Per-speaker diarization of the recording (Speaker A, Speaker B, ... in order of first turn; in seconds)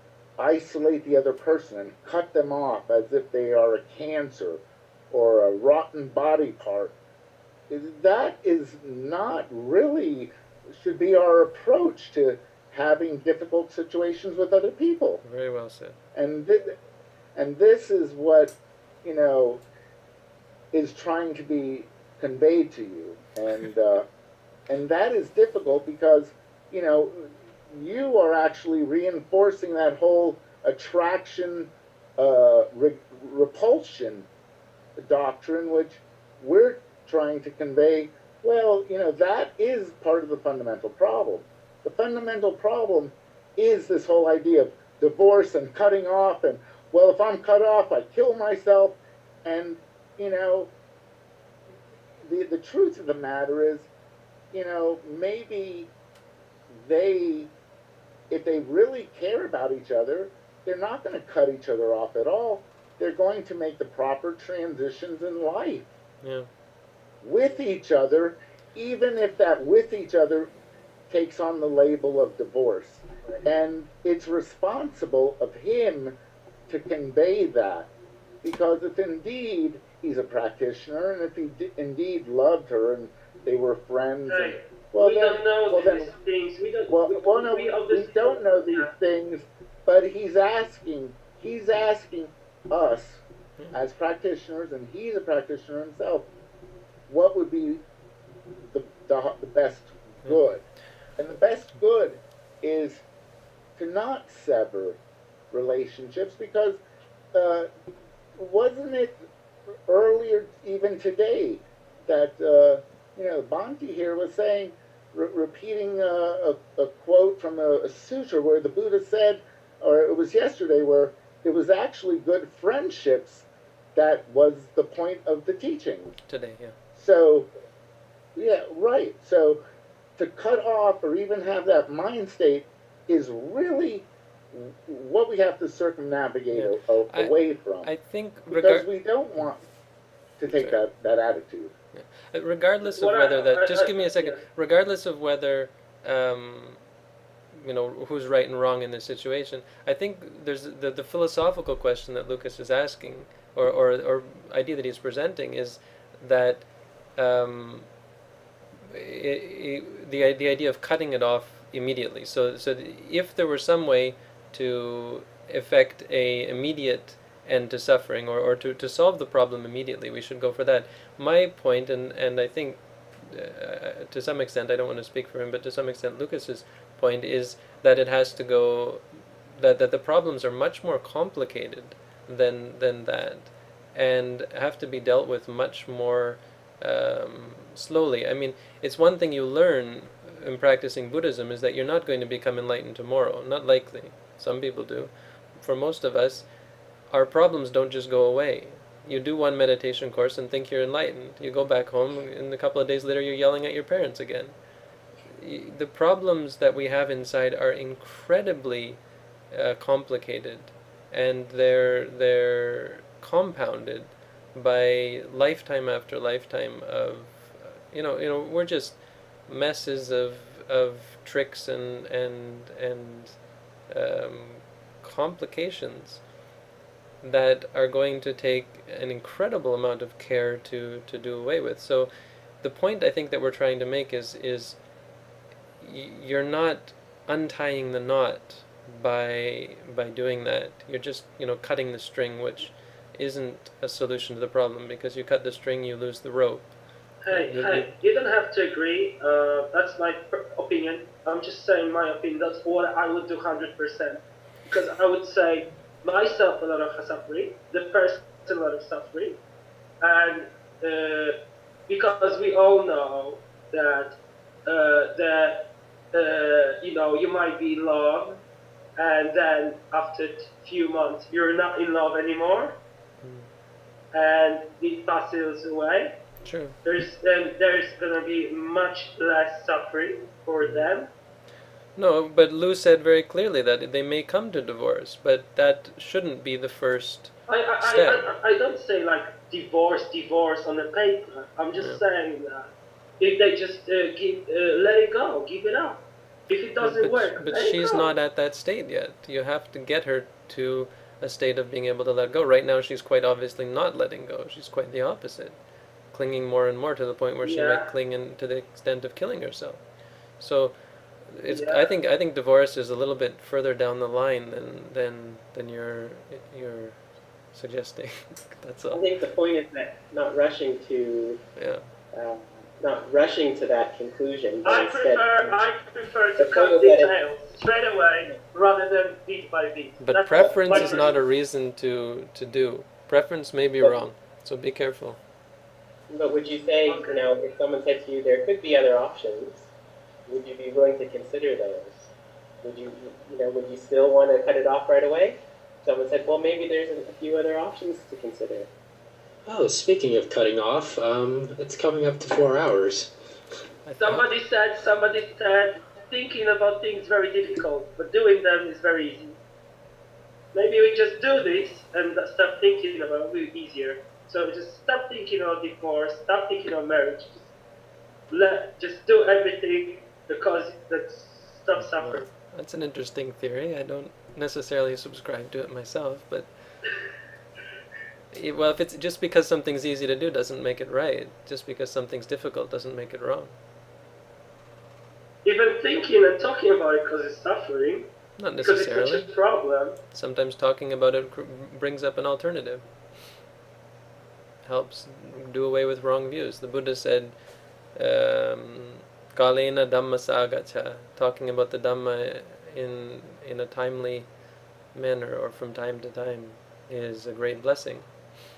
Speaker A: 0.4-7.0, 7.7-15.2, 16.1-16.8, 17.3-19.6, 20.7-24.1, 24.7-34.3, 35.0-50.7, 52.2-53.9, 54.5-55.9, 56.7-57.5, 58.3-65.9, 67.2-70.5, 71.1-76.2, 76.7-77.9, 78.4-86.1, 86.9-96.3, 97.1-97.8, 98.6-100.6, 101.2-103.0, 103.8-105.0, 105.5-106.8, 107.3-107.7, 108.3-109.2, 109.9-126.2, 126.9-127.5, 128.3-129.6, 130.2-137.9, 138.5-139.6, 140.4-141.7
Speaker B: 15.2-16.0, 66.2-66.5, 126.3-126.8, 136.5-138.8, 140.5-140.8, 141.9-146.8, 147.5-157.9, 158.9-179.0, 179.6-196.4, 197.1-204.5, 205.3-209.0, 209.5-223.4, 223.9-226.2, 227.2-232.1, 232.6-234.8, 235.8-246.7, 247.3-247.9, 273.2-273.5, 276.4-276.8, 280.6-280.9, 281.9-288.3, 291.8-292.0, 296.8-305.6, 306.1-309.8, 310.4-310.8, 311.3-317.0, 317.5-319.1, 321.6-321.8, 330.0-335.2, 353.8-354.3, 371.8-376.5, 378.3-383.5, 388.4-389.3, 390.1-392.9, 394.6-404.3, 404.9-408.1
Speaker C: 84.3-88.9, 142.9-144.4, 247.2-259.4, 260.0-261.4, 261.9-268.4, 269.0-272.8, 274.1-276.2, 276.8-281.1, 287.5-298.1, 307.4-307.9, 311.5-311.9, 324.6-331.1, 336.9-337.3, 354.0-359.4, 360.5-367.5, 368.3-372.3, 385.4-388.1, 388.6-390.0
Speaker D: 318.9-321.4, 322.1-325.6, 326.4-327.1, 330.5-331.0, 336.1-339.7, 340.3-342.1, 342.6-348.7
Speaker E: 349.4-353.1